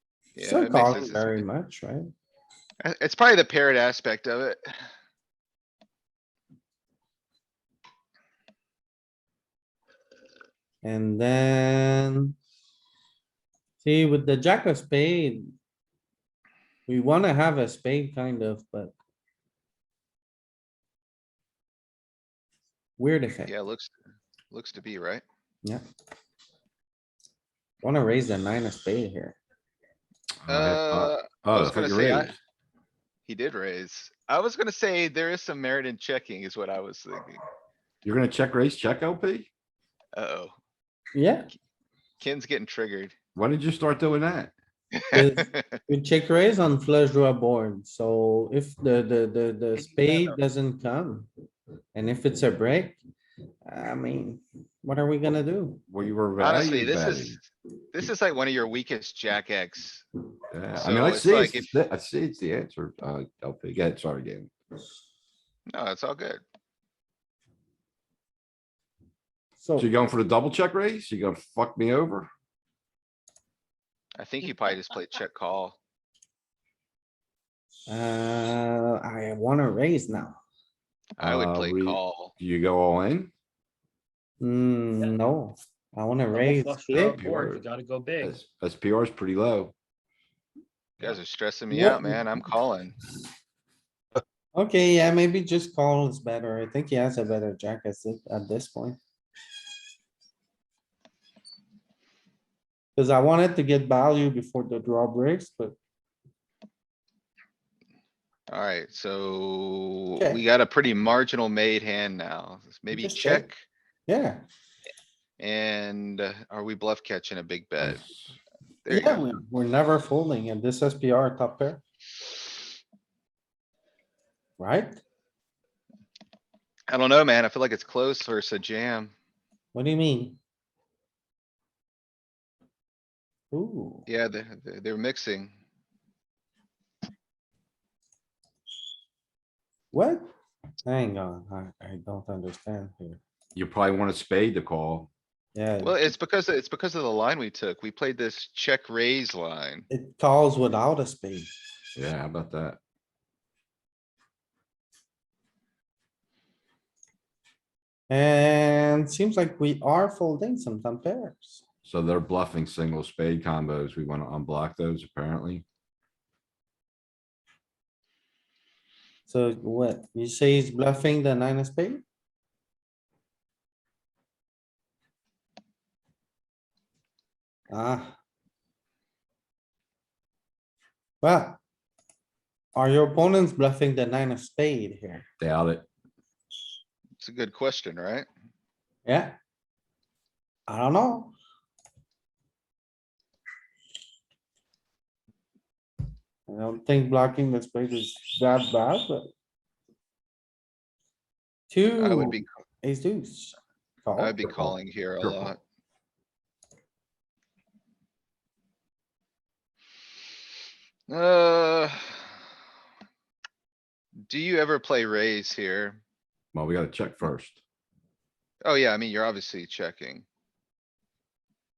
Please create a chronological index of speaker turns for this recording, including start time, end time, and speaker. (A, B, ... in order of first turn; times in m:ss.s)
0:00.4-0:01.5 A
0:00.4-0:02.1 B
0:02.8-0:04.7 A
0:10.8-0:12.3 B
0:13.8-0:15.5 B
0:16.9-0:18.9 B
0:23.0-0:23.5 B
0:23.4-0:23.9 A
0:24.5-0:25.2 A
0:27.8-0:29.4 B
0:30.4-0:32.4 C
0:30.5-0:32.4 A
0:33.3-0:37.4 A
0:38.0-0:39.5 C
0:40.2-0:40.5 A
0:41.1-0:41.5 B
0:42.2-0:43.1 A
0:43.3-0:44.5 C
0:45.0-0:45.7 A
0:45.1-0:51.3 B
0:49.8-0:50.4 D
0:52.0-0:53.0 B
0:53.7-0:55.9 B
0:55.9-0:57.4 C
0:56.4-1:00.0 A
1:00.5-1:04.5 C
1:00.8-1:01.7 A
1:05.7-1:06.4 A
1:09.6-1:09.9 B
1:09.8-1:12.3 C
1:14.2-1:15.8 A
1:17.9-1:20.4 B
1:21.2-1:22.3 A
1:21.2-1:23.3 C
1:24.4-1:27.2 B
1:26.3-1:28.4 D
1:27.0-1:27.6 C
1:28.2-1:29.7 C
1:31.0-1:33.0 A
1:31.7-1:32.3 B
1:34.6-1:39.0 B
1:43.0-1:45.8 B
1:48.5-1:53.6 A
1:50.2-1:50.4 B
1:52.9-1:53.4 B
1:54.1-1:54.4 B
1:55.4-1:58.0 A
1:57.8-1:58.2 C
1:58.8-1:59.2 A
1:58.9-2:01.8 B
2:04.6-2:05.0 B
2:06.9-2:09.1 A
2:09.7-2:10.4 B
2:13.5-2:14.1 B
2:14.1-2:15.5 A
2:19.9-2:20.3 B
2:20.8-2:23.2 B
2:23.5-2:25.1 C
2:25.5-2:26.1 B
2:25.8-2:29.9 A
2:29.9-2:31.5 B
2:32.0-2:32.8 C
2:38.1-2:41.6 B
2:41.8-2:45.6 C
2:49.3-2:52.0 B
2:57.7-2:58.2 B
3:01.2-3:01.6 B
3:02.8-3:05.3 B
3:05.4-3:05.9 C
3:07.2-3:08.3 A
3:09.0-3:09.3 B
3:10.7-3:11.4 B
3:16.5-3:19.3 B
3:21.7-3:24.5 B
3:22.0-3:22.5 A
3:24.2-3:25.6 A
3:24.4-3:25.5 C
3:31.1-3:32.3 A
3:34.3-3:36.0 A
3:36.5-3:37.6 C
3:38.6-3:40.2 A